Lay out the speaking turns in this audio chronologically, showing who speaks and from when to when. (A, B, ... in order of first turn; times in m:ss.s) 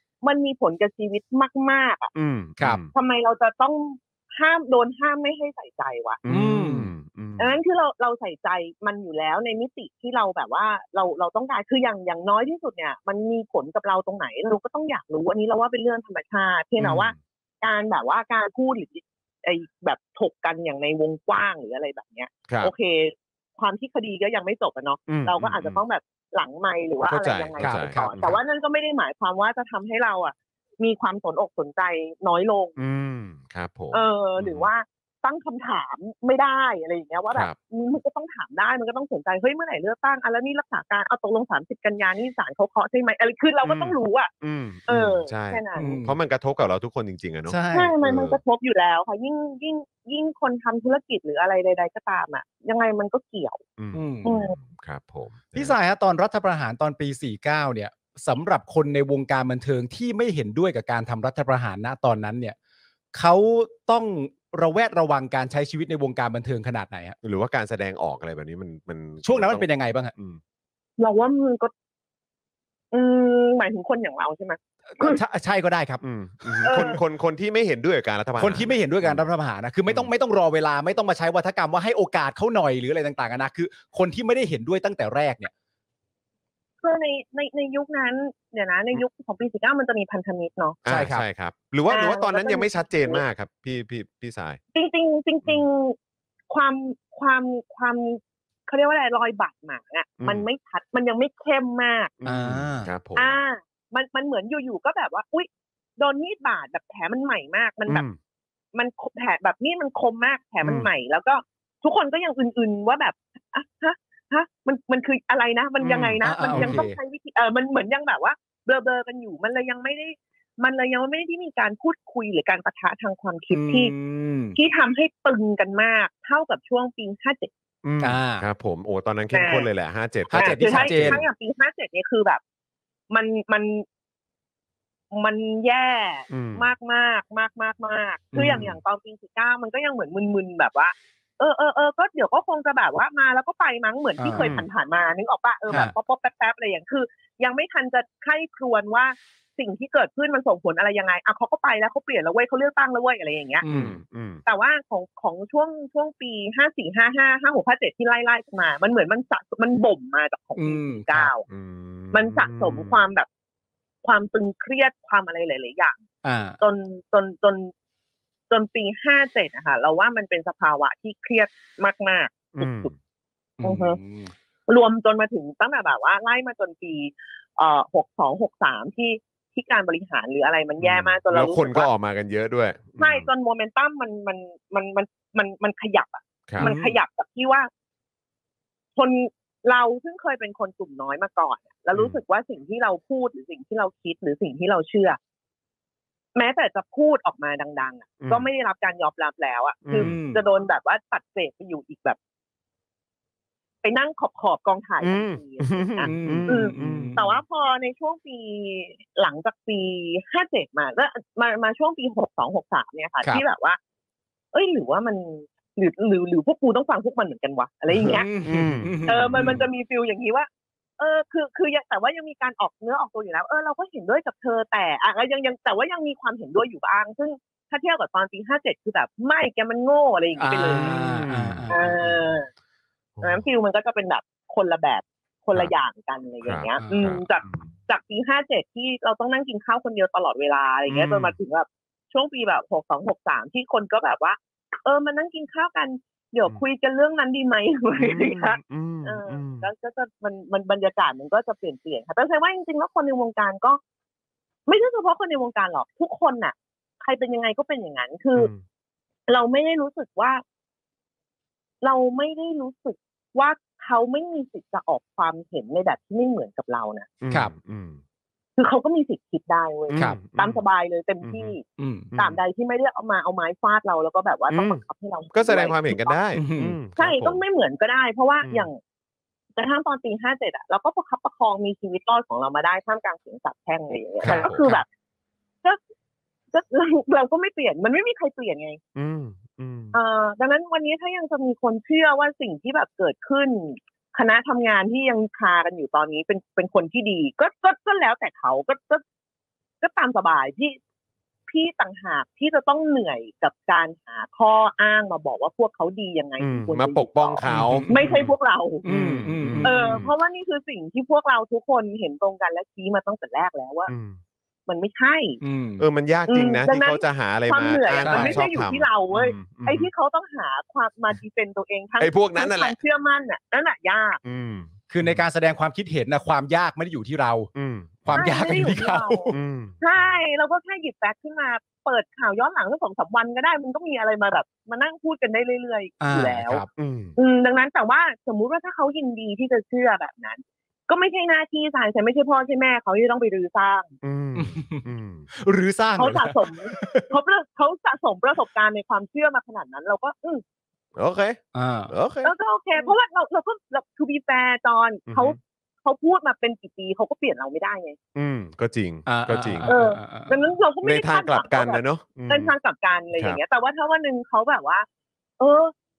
0:00.2-0:02.1 A
0:02.2-0:02.9 B
0:02.9-0:06.2 A
0:06.2-0:07.6 B
0:06.3-0:06.9 C
0:07.4-0:32.8 A
0:16.8-0:17.1 B
0:25.1-0:25.8 B
0:27.0-0:28.4 B
0:27.6-0:28.1 C
0:32.8-0:34.7 B
0:33.9-0:44.3 A
0:43.6-0:48.4 B
0:44.9-0:46.0 A
0:45.8-0:46.2 C
0:47.5-0:48.0 C
0:47.7-0:53.6 A
0:53.8-0:55.8 B
0:53.9-0:54.3 C
0:54.2-0:54.6 A
0:55.6-1:02.6 C
1:03.2-1:07.2 C
1:07.2-1:10.4 B
1:09.2-1:10.1 C
1:11.0-1:11.7 A
1:12.9-1:15.2 A
1:14.9-1:16.9 C
1:16.0-1:19.2 B
1:16.6-1:17.0 A
1:18.4-1:25.5 C
1:26.8-1:30.8 A
1:30.8-1:34.6 B
1:30.9-1:31.2 C
1:31.9-1:33.2 A
1:34.7-1:36.0 A
1:36.5-1:42.1 A
1:40.2-1:40.5 B
1:42.2-1:43.3 B
1:42.2-1:42.9 C
1:43.2-1:48.0 A
1:47.9-1:48.2 B
1:48.7-2:04.0 A
1:50.6-1:50.9 B
1:55.8-1:56.8 B
1:56.2-1:57.0 C
2:03.5-2:04.6 C
2:04.6-2:07.5 A
2:07.8-2:11.2 B
2:08.0-2:08.4 C
2:09.3-2:09.7 A
2:10.3-2:11.2 C
2:10.4-2:12.4 A
2:13.1-2:13.8 A
2:15.1-2:33.6 A
2:16.3-2:16.7 B
2:18.3-2:18.8 C
2:24.2-2:24.5 C
2:24.4-2:24.7 B
2:25.7-2:25.9 C
2:33.6-2:34.0 C
2:33.7-2:34.4 B
2:34.5-2:41.4 A
2:40.6-2:41.3 C
2:41.5-2:43.0 B
2:42.1-2:43.3 A
2:44.0-2:46.0 A
2:46.2-2:46.6 C
2:46.6-2:47.7 A
2:48.5-2:52.9 A
2:52.6-2:52.9 B
2:53.6-2:54.3 C
2:53.6-2:54.0 A
2:54.7-3:01.9 A
3:00.8-3:03.3 B
3:03.0-3:07.7 A
3:06.6-3:07.0 C
3:09.0-3:15.2 A
3:11.9-3:12.2 B
3:16.4-3:22.2 A
3:18.2-3:18.5 B
3:19.9-3:20.2 B
3:20.0-3:20.4 C
3:23.8-3:33.8 A
3:25.0-3:27.4 B
3:26.0-3:27.2 C
3:34.5-3:38.3 A
3:37.9-3:39.6 B
3:38.0-3:39.7 C
3:39.1-3:40.5 A
3:41.0-3:51.0 A
3:50.4-3:52.2 C
3:50.8-3:51.8 B
3:51.7-3:52.5 A
3:53.2-3:53.5 B
3:53.2-4:13.8 A
3:56.4-3:57.7 B
3:56.8-3:57.1 C
4:00.9-4:01.4 B
4:08.0-4:09.7 B
4:14.7-4:18.5 A
4:18.4-4:18.6 B
4:19.3-4:20.4 A
4:21.8-4:27.1 A
4:27.2-4:28.0 B
4:28.6-4:31.6 A
4:29.9-4:30.6 B
4:31.2-4:31.6 B
4:31.8-4:32.1 C
4:32.1-4:32.4 B
4:32.2-4:36.2 A
4:34.5-4:34.8 B
4:35.3-4:37.4 B
4:36.3-4:36.8 C
4:37.0-4:38.8 A
4:38.4-4:38.7 B
4:39.6-4:44.9 A
4:44.2-4:44.8 B
4:44.2-4:44.8 C
4:46.5-4:48.8 A
4:49.0-4:50.0 B
4:49.9-4:59.0 A
4:59.8-5:00.8 A
5:01.5-5:08.8 A
5:06.4-5:08.3 B
5:07.4-5:08.3 C
5:08.8-5:10.1 C
5:08.9-5:10.1 B
5:09.6-5:13.9 A
5:13.9-5:14.2 B
5:14.7-5:15.4 A
5:15.4-5:15.8 C
5:15.8-5:19.9 B
5:16.3-5:24.2 A
5:18.0-5:18.4 C
5:22.0-5:22.8 B
5:24.2-5:25.2 B
5:24.9-5:27.5 C
5:27.6-5:28.3 B
5:28.0-5:29.3 C
5:28.1-5:36.6 A
5:29.3-5:30.0 B
5:36.0-5:36.7 C
5:36.8-5:37.2 B
5:37.2-5:43.9 A
5:44.0-5:45.3 B
5:44.4-5:47.1 C
5:46.0-5:50.4 A
5:51.0-5:52.9 B
5:51.5-5:51.9 C
5:52.2-5:58.0 A
5:55.1-5:55.4 B
5:58.2-5:59.7 B
5:59.1-6:00.4 C
5:59.7-6:04.9 A
6:00.8-6:02.6 B
6:05.4-6:05.7 A